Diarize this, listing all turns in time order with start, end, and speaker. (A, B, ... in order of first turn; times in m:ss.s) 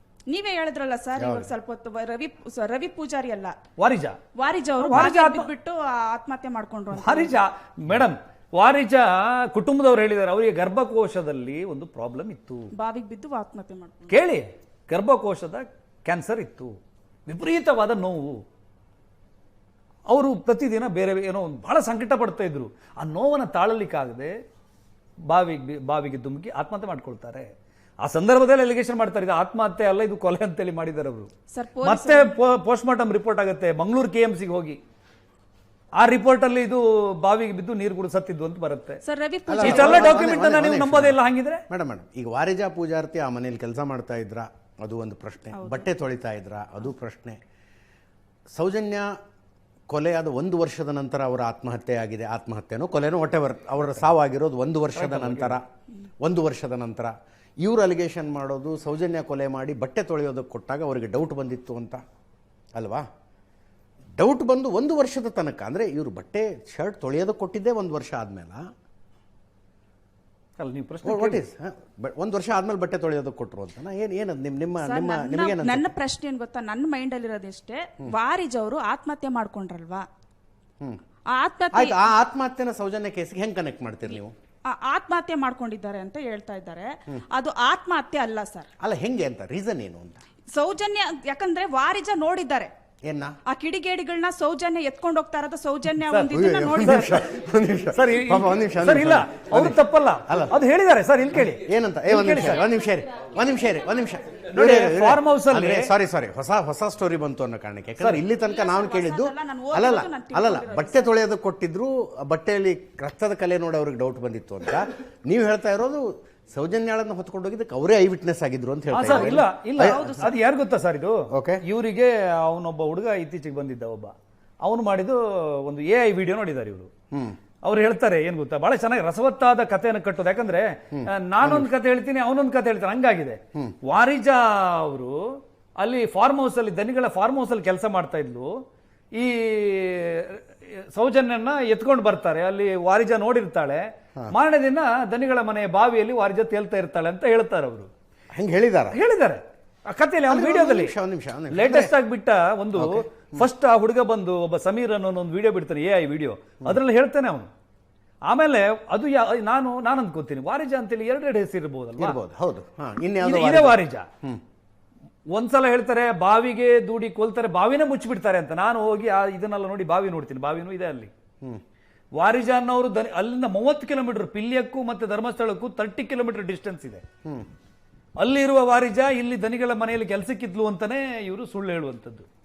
0:00.3-0:03.6 A
0:01.2-0:01.5 B
0:03.8-0:04.2 C
0:04.4-0:07.4 A
0:04.8-0:05.5 C
0:06.9-0:12.7 C
0:12.7-0:14.2 A
0:14.1-0:16.7 C
0:17.3-0:18.4 C
0:20.1-0:24.3 C
0:25.3-0:27.5 C
0:28.0-0:31.3 C
0:31.5-0:32.3 A
0:31.8-0:34.8 C
0:36.0-0:39.0 C
0:39.0-0:40.2 A
0:39.5-0:41.2 B
0:39.6-0:41.6 C
0:41.7-0:47.4 B
0:45.5-0:45.9 A
0:48.5-0:49.1 B
0:49.9-0:55.6 B
0:55.0-0:55.6 C
0:56.2-1:02.0 B
1:02.7-1:03.0 B
1:04.2-1:08.6 B
1:10.6-1:11.4 C
1:11.0-1:15.9 B
1:14.8-1:20.0 A
1:21.3-1:22.0 A
1:21.7-1:24.3 B
1:24.7-1:28.7 A
1:28.8-1:30.2 B
1:30.5-1:32.7 A
1:33.1-1:33.3 B
1:33.5-1:37.2 A
1:36.1-1:37.2 C
1:36.3-1:40.5 B
1:37.9-1:42.6 C
1:41.4-2:00.3 B
1:44.5-1:45.9 C
1:48.0-1:48.2 C
1:48.4-1:51.1 A
1:58.9-2:06.9 C
1:59.0-2:00.3 A
2:01.3-2:01.6 B
2:07.1-2:07.4 B
2:07.6-2:18.5 C
2:10.9-2:11.7 B
2:19.1-2:27.9 C
2:28.3-2:29.0 B
2:28.9-2:30.9 C
2:30.3-2:31.9 B
2:31.5-2:37.5 C
2:32.8-2:33.5 B
2:38.3-2:42.2 C
2:42.0-2:44.4 B
2:43.2-2:44.0 C
2:45.3-2:51.1 C
2:52.2-2:57.0 C
2:58.2-3:02.2 C